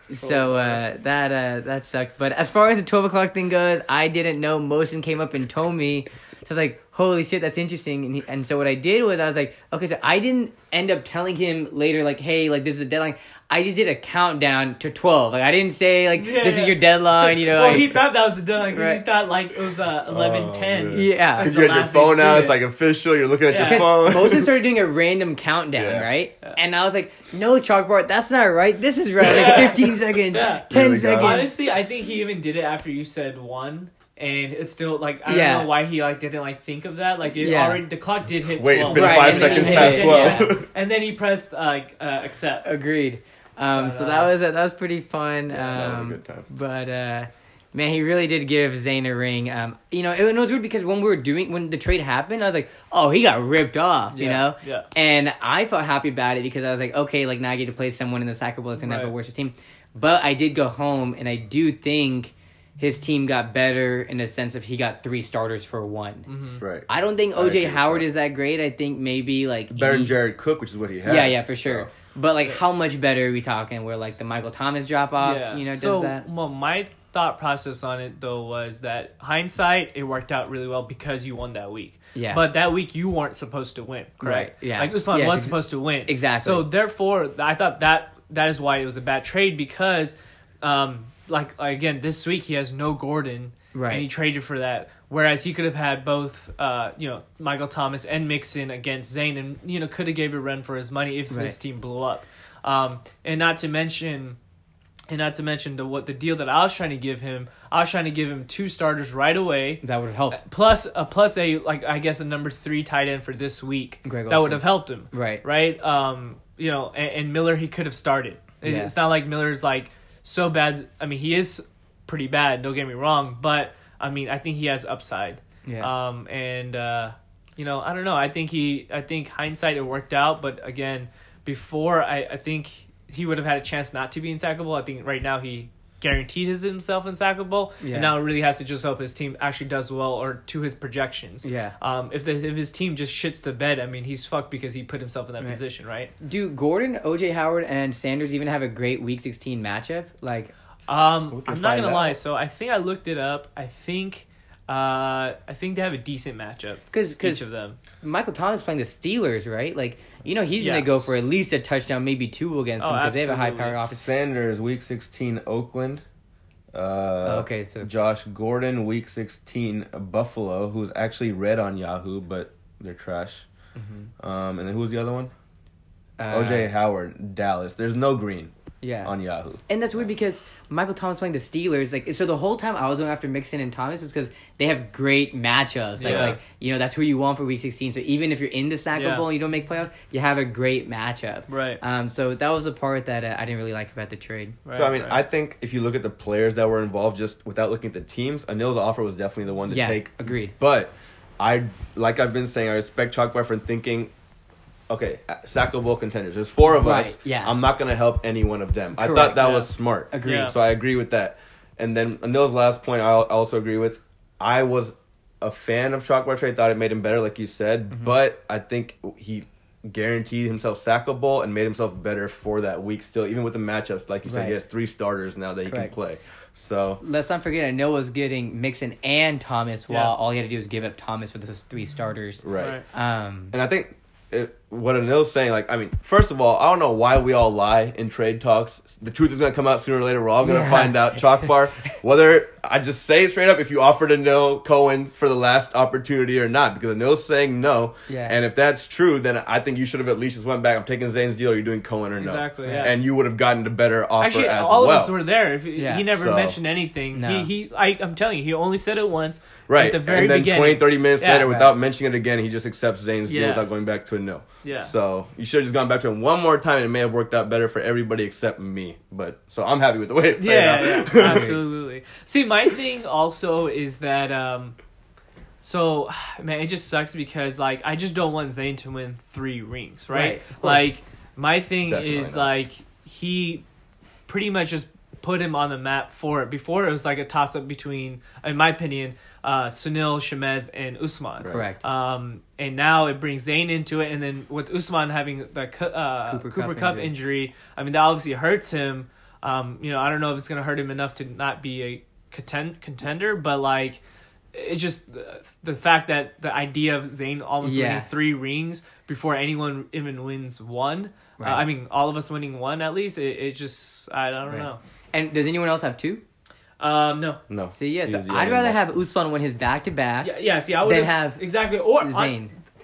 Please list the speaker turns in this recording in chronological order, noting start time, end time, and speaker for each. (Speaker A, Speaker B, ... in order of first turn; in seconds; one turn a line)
Speaker A: 0.1-18.0
Speaker B: 0.2-0.8
Speaker B: 16.1-22.6
Speaker A: 18.7-19.0
Speaker C: 20.1-24.5
Speaker A: 20.9-21.5
Speaker B: 23.5-23.9
Speaker A: 23.6-31.5
Speaker C: 25.7-26.1
Speaker B: 29.2-42.7
Speaker C: 30.7-31.5
Speaker A: 35.2-35.7
Speaker A: 37.3-37.8
Speaker C: 38.5-40.7
Speaker A: 38.8-40.6
Speaker A: 42.6-66.3
Speaker B: 43.7-44.3
Speaker C: 45.5-46.5
Speaker B: 54.1-54.9
Speaker B: 58.8-59.1
Speaker B: 66.2-66.6
Speaker C: 66.6-68.0
Speaker A: 66.9-70.2
Speaker C: 69.7-71.9
Speaker A: 71.0-76.2
Speaker B: 75.2-104.4
Speaker A: 82.1-82.4
Speaker A: 84.2-86.7
Speaker A: 93.7-94.1
Speaker A: 101.3-101.5
Speaker B: 105.1-146.1
Speaker A: 109.8-110.4
Speaker A: 114.0-115.4
Speaker A: 118.6-118.9
Speaker A: 125.7-125.9
Speaker A: 137.8-138.1
Speaker A: 141.4-141.7
Speaker A: 146.2-150.5
Speaker B: 150.9-157.8
Speaker C: 151.3-152.2
Speaker A: 156.9-157.5
Speaker A: 158.0-164.0
Speaker B: 160.6-160.9
Speaker B: 162.8-163.8
Speaker C: 163.9-166.0
Speaker C: 166.7-173.4
Speaker A: 167.2-167.9
Speaker A: 173.8-174.1
Speaker C: 174.2-175.3
Speaker A: 176.2-176.7
Speaker C: 176.3-178.5
Speaker A: 178.8-179.1
Speaker C: 179.0-179.6
Speaker A: 179.7-194.6
Speaker B: 186.0-186.4
Speaker C: 186.0-186.4
Speaker B: 188.9-189.3
Speaker B: 191.5-191.8
Speaker B: 194.6-195.2
Speaker C: 194.7-204.1
Speaker A: 199.7-200.5
Speaker C: 204.9-227.0
Speaker A: 206.7-207.5
Speaker A: 208.9-210.5
Speaker B: 210.2-210.5
Speaker A: 224.2-224.6
Speaker A: 225.6-225.9
Speaker A: 227.0-233.5
Speaker B: 229.9-230.1
Speaker C: 232.4-232.8
Speaker B: 232.5-232.8
Speaker C: 233.5-255.1
Speaker A: 240.4-241.2
Speaker A: 248.1-248.4
Speaker B: 252.2-253.0
Speaker A: 252.7-252.9
Speaker B: 254.2-261.5
Speaker A: 255.8-256.1
Speaker C: 256.1-256.6
Speaker A: 257.1-257.5
Speaker C: 259.7-271.6
Speaker B: 263.3-263.6
Speaker B: 264.6-264.9
Speaker B: 270.4-274.8
Speaker B: 275.6-283.6
Speaker A: 280.1-280.9
Speaker C: 281.9-282.5
Speaker B: 284.3-304.0
Speaker C: 291.4-291.7
Speaker A: 291.5-291.8
Speaker A: 296.3-297.1
Speaker B: 304.5-314.8
Speaker A: 307.6-308.1
Speaker A: 311.4-311.6
Speaker A: 314.5-316.2
Speaker B: 316.8-317.4
Speaker C: 317.5-318.8
Speaker A: 317.7-321.5
Speaker B: 320.2-322.4
Speaker A: 322.0-322.5